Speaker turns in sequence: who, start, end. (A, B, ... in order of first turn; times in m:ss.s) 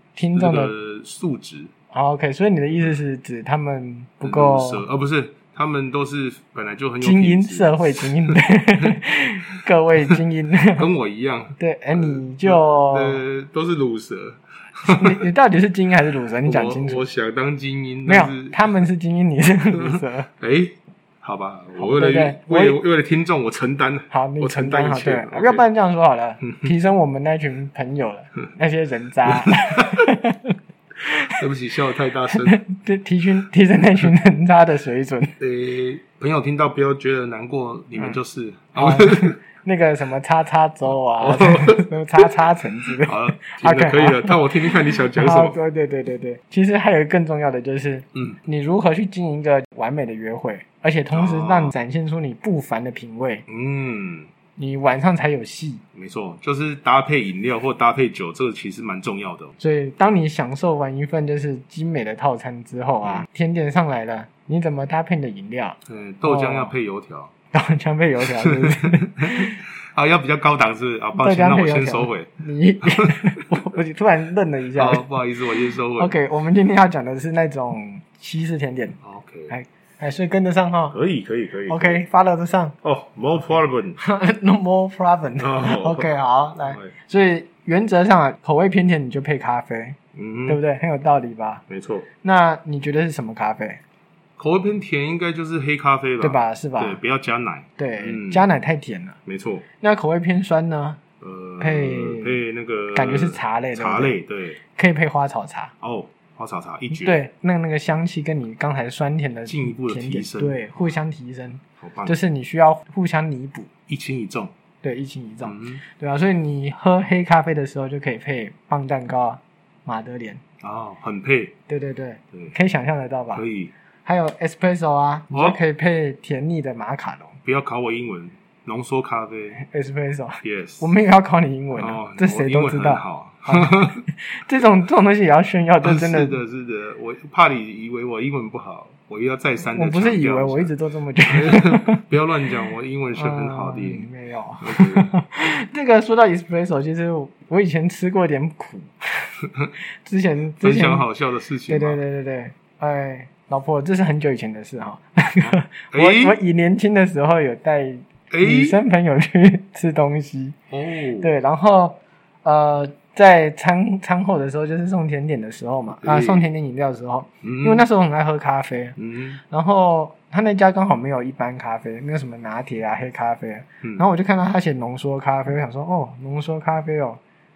0:00.2-0:00.7 A
0:00.3-0:01.7 B
0:01.9-0:04.8 A
0:04.2-0:08.4 B
0:07.0-0:10.9 A
0:10.8-0:15.2 B
0:11.6-0:13.2 A
0:14.8-0:17.0 A
0:16.4-0:18.7 B
0:18.1-0:20.3 A
0:19.7-0:25.6 B
0:21.8-0:22.8 A
0:24.1-0:31.4 A
0:29.2-0:30.0 B
0:31.2-0:32.6 B
0:32.3-0:35.4 A
0:35.4-0:39.4 B
0:38.8-0:53.4 A
0:41.2-0:42.2 B
0:43.0-0:45.6 B
0:51.1-0:51.7 B
0:53.5-0:54.3 B
0:54.6-0:55.8 A
0:56.0-0:59.5 B
0:59.6-1:06.7 A
1:05.9-1:07.3 B
1:07.5-1:09.6 A
1:08.2-1:12.3 B
1:11.2-1:15.1 A
1:12.8-1:13.4 B
1:14.8-1:16.2 B
1:16.0-1:21.0 A
1:19.0-1:19.5 B
1:20.9-1:22.0 B
1:21.7-1:22.8 A
1:22.8-1:24.0 B
1:24.0-1:31.6 A
1:25.4-1:26.1 B
1:26.7-1:26.9 B
1:30.1-1:30.6 B
1:31.7-1:32.1 B
1:32.2-1:33.8 A
1:34.4-1:38.5 B
1:36.2-1:37.0 A
1:37.8-1:39.2 A
1:39.3-1:39.6 B
1:39.8-1:41.0 A
1:41.2-1:44.6 B
1:41.6-1:42.4 A
1:43.0-1:44.1 A
1:44.8-1:45.7 A
1:45.8-1:47.2 B
1:46.9-1:53.7 A
1:49.5-1:50.6 B
1:51.8-1:52.2 B
1:53.9-1:54.5 B
1:54.8-2:00.4 A
1:55.4-1:55.8 B
2:00.6-2:01.5 B
2:01.7-2:03.4 A
2:03.3-2:03.7 B
2:04.0-2:07.4 A
2:05.3-2:05.6 B
2:07.4-2:09.6 B
2:09.6-2:16.4 A
2:10.4-2:10.9 B
2:11.8-2:14.0 B
2:15.8-2:20.7 B
2:19.6-2:22.0 A
2:21.3-2:24.1 B
2:23.2-2:29.3 A
2:24.6-2:25.1 B
2:30.0-2:31.1 A
2:30.6-2:32.0 B
2:31.7-2:40.6 A
2:35.4-2:36.4 B
2:38.3-2:38.8 B
2:40.7-2:41.3 B
2:41.2-2:49.0 A
2:46.0-2:46.5 B
2:47.4-2:47.8 B
2:49.0-2:49.4 B
2:49.5-2:57.2 A